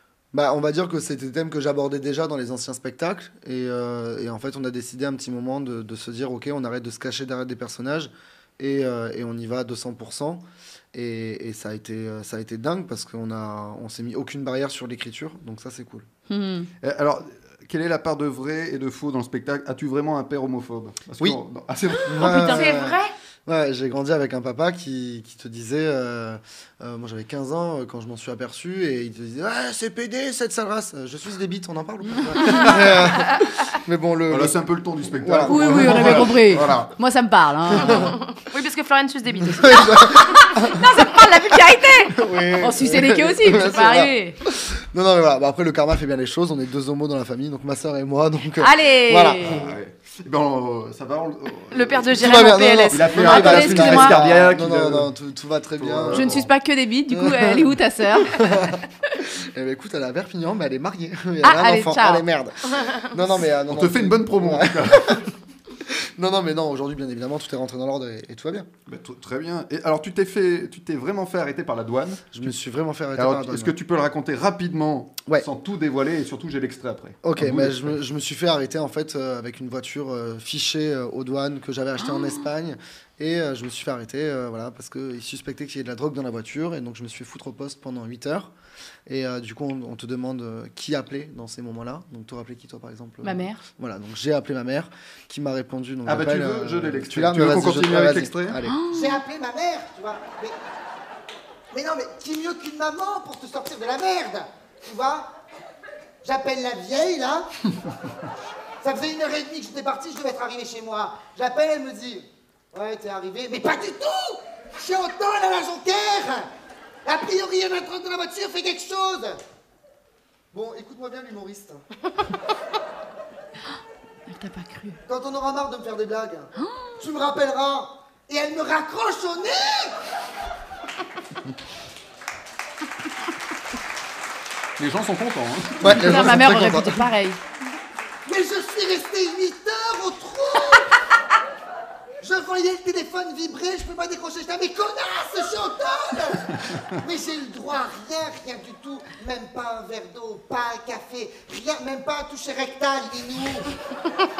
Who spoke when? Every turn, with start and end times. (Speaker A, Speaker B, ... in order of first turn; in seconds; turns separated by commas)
Speaker A: 0.3-16.1, Speaker B: 16.3-16.7, Speaker C: 16.8-22.4, Speaker A: 22.1-34.6, Speaker D: 22.2-23.1, Speaker C: 34.3-36.9, Speaker A: 35.1-36.7, Speaker B: 35.4-38.1, Speaker A: 37.7-38.1, Speaker D: 37.8-40.4, Speaker A: 39.6-41.2, Speaker B: 40.5-44.4, Speaker A: 42.1-49.6, Speaker B: 48.6-49.7, Speaker C: 49.5-52.3, Speaker D: 51.7-53.1, Speaker A: 52.1-56.5, Speaker C: 52.9-55.1, Speaker B: 53.1-54.2, Speaker C: 55.8-56.5, Speaker B: 56.1-58.5, Speaker A: 57.1-57.7, Speaker A: 58.3-65.2, Speaker B: 61.4-62.2, Speaker C: 63.6-65.2, Speaker A: 65.8-68.7, Speaker C: 68.9-72.5, Speaker A: 72.3-73.7, Speaker C: 73.2-78.0, Speaker A: 77.2-88.5, Speaker A: 89.1-98.9, Speaker B: 93.2-93.6, Speaker C: 96.0-98.6, Speaker B: 98.7-99.2, Speaker E: 98.9-100.5, Speaker E: 101.7-105.3, Speaker E: 106.2-107.5, Speaker E: 108.8-116.5, Speaker A: 114.0-114.4, Speaker A: 115.1-116.3, Speaker E: 117.0-119.4, Speaker A: 117.1-119.2, Speaker A: 120.5-121.8, Speaker B: 124.3-125.0, Speaker A: 125.1-126.5, Speaker B: 126.6-127.0, Speaker A: 127.0-129.9, Speaker E: 128.6-129.3, Speaker C: 134.8-136.4, Speaker A: 135.8-137.1, Speaker B: 135.8-137.4, Speaker E: 138.3-140.9, Speaker E: 142.2-146.5, Speaker E: 147.0-153.6